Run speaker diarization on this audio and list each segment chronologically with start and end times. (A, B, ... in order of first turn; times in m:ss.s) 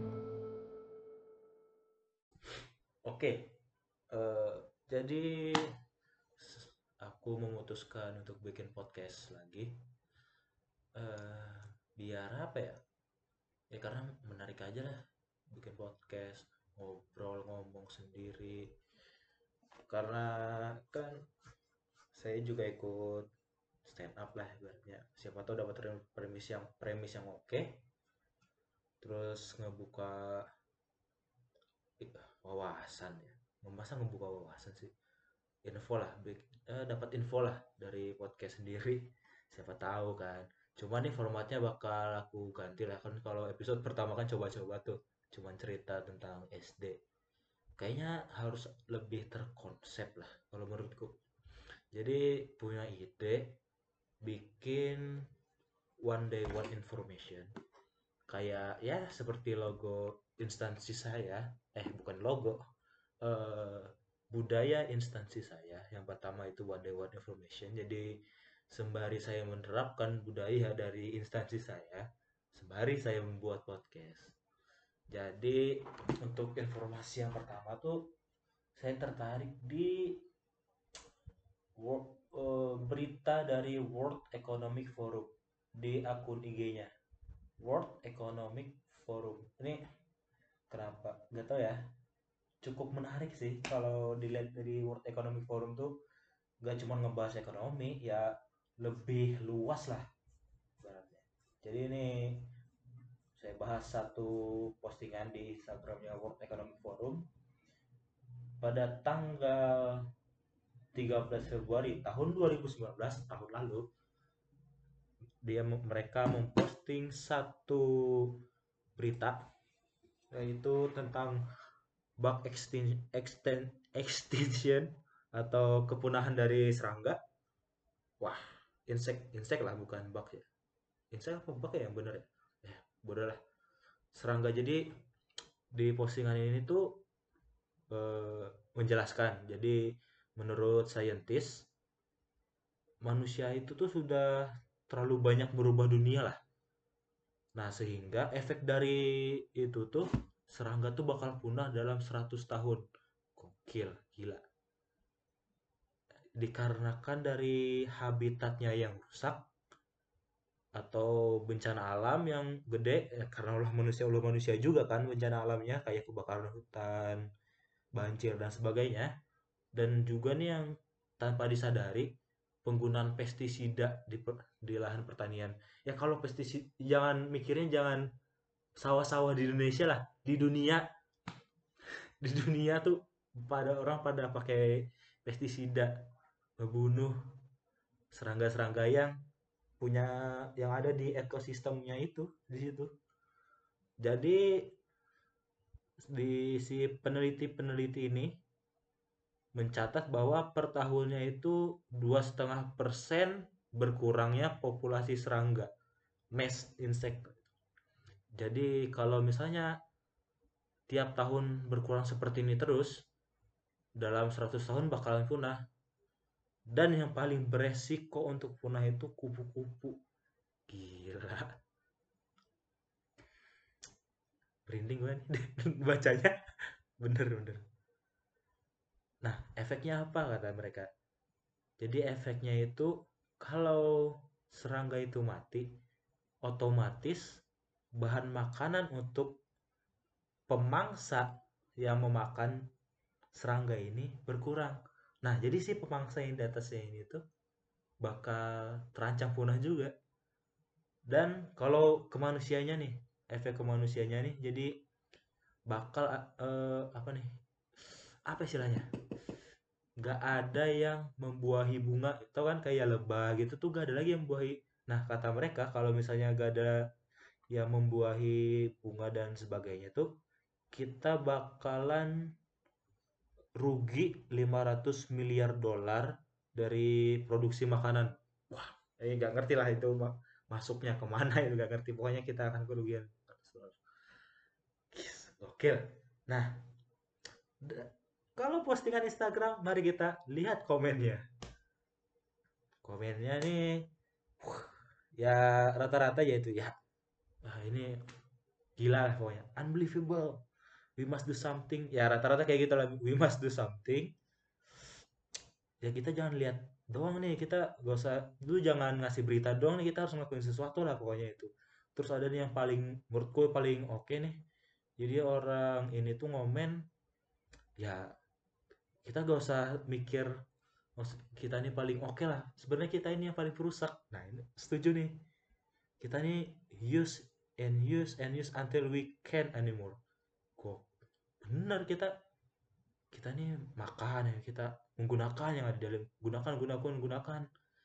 0:03.1-0:03.5 A
0:04.1-0:05.7 A
0:06.4-0:09.8 A
0:11.0-0:12.8 A
0:13.7-0:15.0 A
0:15.5-0:18.7 A
0:19.9-0:21.2 A
0:22.1-0:23.3 A
0:23.8-0:27.8 A
0:29.0-0:30.4 A
0:32.0-0:34.9 A
0:35.6-0:47.0 A
0:47.8-0:51.2 A
0:51.9-0:53.6 A
0:54.2-0:55.2 A
0:56.0-0:57.5 A
0:58.3-1:02.6 A
1:03.2-1:08.1 A
1:08.7-1:14.4 A
1:15.1-1:18.0 A
1:18.8-1:20.2 A
1:21.8-1:26.9 A
1:27.6-1:29.8 A
1:30.7-1:31.8 A
1:32.6-1:36.0 A
1:36.6-1:40.1 A
1:40.8-1:42.5 A
1:43.4-1:47.3 A
1:48.6-1:50.1 A
1:50.9-1:53.9 A
1:55.4-1:58.4 A
1:59.0-1:59.4 A
2:00.3-2:01.4 A
2:02.2-2:07.2 A
2:08.2-2:10.5 A
2:11.1-2:13.4 A
2:14.1-2:14.8 A
2:15.7-2:17.0 A
2:17.9-2:19.8 A
2:20.4-2:21.7 A
2:23.0-2:26.4 A
2:27.6-2:32.8 A
2:33.4-2:34.4 A
2:36.4-2:39.5 A
2:40.8-2:47.2 A
2:48.0-2:49.1 A
2:49.8-2:52.1 A
2:52.6-2:58.1 A
2:58.8-3:00.9 A
3:02.2-3:06.0 A
3:06.6-3:07.2 A
3:08.1-3:09.2 A
3:09.8-3:12.9 A
3:14.0-3:14.7 A
3:16.1-3:18.4 A
3:19.6-3:25.7 A
3:26.3-3:27.4 A
3:28.4-3:29.7 A
3:30.9-3:33.1 A
3:34.0-3:35.6 A
3:36.7-3:40.0 A
3:40.7-3:41.5 A
3:44.7-3:46.4 A
3:47.0-3:47.6 A
3:49.2-3:50.9 A
3:51.8-3:55.7 A
3:56.4-3:57.3 A
3:58.0-3:59.4 A
4:00.5-4:02.6 A
4:03.3-4:07.2 A
4:08.0-4:09.9 A
4:11.1-4:14.7 A
4:15.7-4:17.3 A
4:18.3-4:18.9 A
4:20.0-4:26.8 A
4:27.5-4:30.1 A
4:30.7-4:32.3 A
4:33.6-4:43.8 A
4:44.9-4:46.6 A
4:47.6-4:51.2 A
4:52.8-4:53.9 A
4:54.4-4:56.8 A
4:57.4-4:58.0 A
4:58.8-5:00.4 A
5:01.0-5:04.2 A
5:05.8-5:14.4 A
5:15.0-5:16.8 A
5:17.8-5:18.1 A
5:19.0-5:20.3 A
5:21.0-5:25.1 A
5:26.0-5:30.0 A
5:30.6-5:30.9 A
5:31.4-5:32.1 A
5:33.1-5:37.4 A